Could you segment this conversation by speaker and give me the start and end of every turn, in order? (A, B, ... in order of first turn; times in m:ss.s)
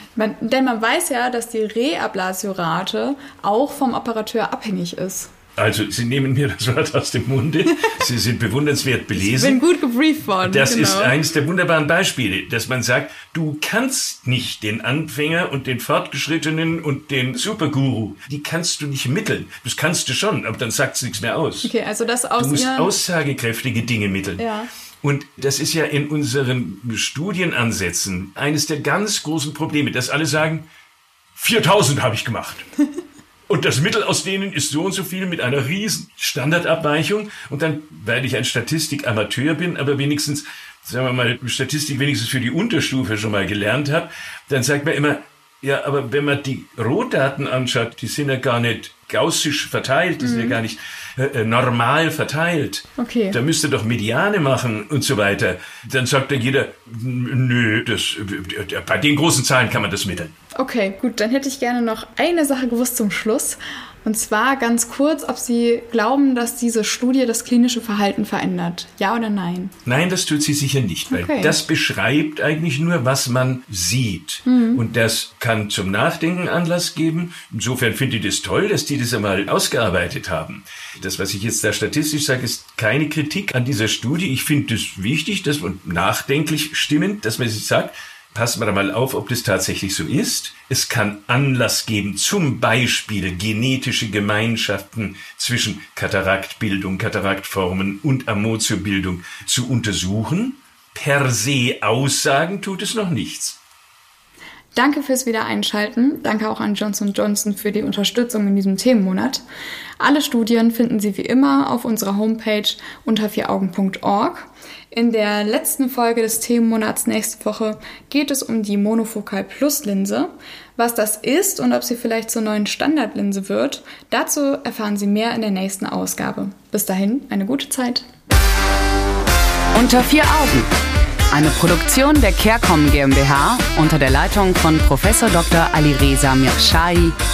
0:00.2-0:05.3 A
0:05.6-0:09.6 B
0:09.1-0:11.2 A
0:10.4-0:21.7 B
0:21.6-0:22.9 A
0:22.4-0:24.4 B
0:24.4-0:24.7 A
0:25.0-0:30.6 B
0:31.3-0:32.6 B
0:33.5-1:00.3 B
0:50.2-0:50.6 A
0:53.0-0:53.4 A
1:00.6-1:09.7 A
1:09.8-1:43.6 B
1:11.1-1:11.6 A
1:14.4-1:14.8 A
1:44.7-1:49.4 A
1:50.0-2:08.1 A
2:09.7-2:10.7 C
2:11.3-2:17.2 C